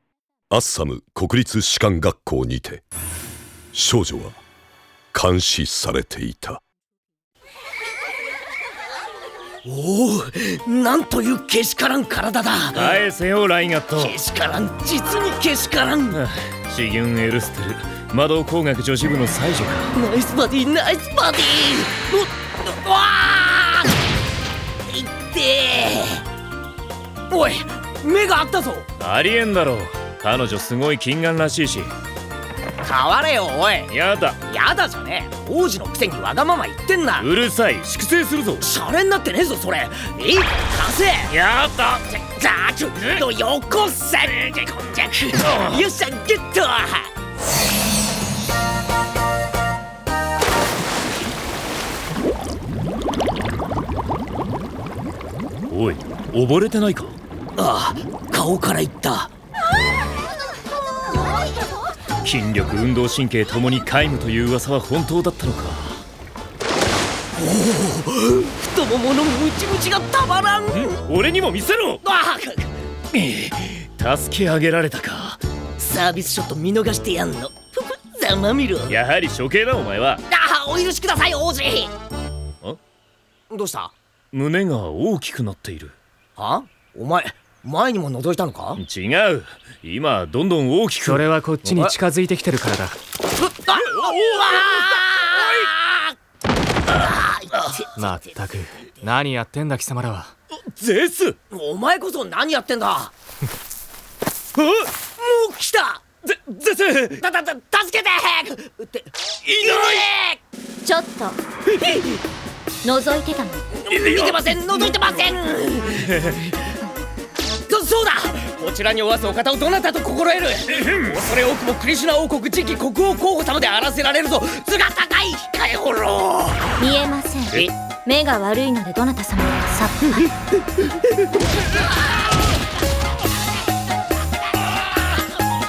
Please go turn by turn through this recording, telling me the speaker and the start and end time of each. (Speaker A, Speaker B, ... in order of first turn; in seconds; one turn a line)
Speaker A: 0.5-2.8
Speaker A: 3.7-4.4
Speaker A: 5.1-6.6
Speaker B: 9.6-13.0
Speaker C: 12.8-14.1
Speaker B: 13.9-16.2
Speaker C: 16.1-19.9
Speaker B: 19.9-23.9
Speaker B: 24.9-26.2
Speaker B: 27.3-28.9
Speaker C: 29.0-31.9
Speaker B: 32.8-33.9
Speaker C: 33.9-34.4
Speaker B: 34.5-37.3
Speaker C: 37.2-38.7
Speaker B: 38.6-41.3
Speaker C: 41.3-42.2
Speaker B: 42.2-47.1
Speaker C: 55.7-57.1
Speaker B: 57.5-59.3
Speaker C: 62.2-66.0
Speaker B: 67.3-71.0
Speaker C: 70.7-72.0
Speaker B: 72.0-72.8
Speaker C: 73.1-75.4
Speaker B: 75.8-79.0
Speaker C: 78.9-80.2
Speaker B: 80.3-81.9
Speaker B: 83.5-83.9
Speaker C: 84.3-86.0
Speaker B: 86.3-88.8
Speaker C: 88.8-91.9
Speaker D: 91.0-93.0
Speaker B: 93.4-96.0
Speaker C: 94.0-95.2
Speaker B: 96.9-99.1
Speaker D: 98.0-100.3
Speaker C: 100.5-101.4
Speaker B: 101.5-103.1
Speaker B: 105.2-106.0
Speaker C: 106.2-107.0
Speaker B: 107.0-110.4
Speaker C: 109.5-110.0
Speaker E: 110.8-111.4
Speaker E: 112.8-113.7
Speaker B: 113.8-116.5
Speaker C: 114.0-114.4
Speaker B: 117.7-126.8
Speaker E: 126.8-130.3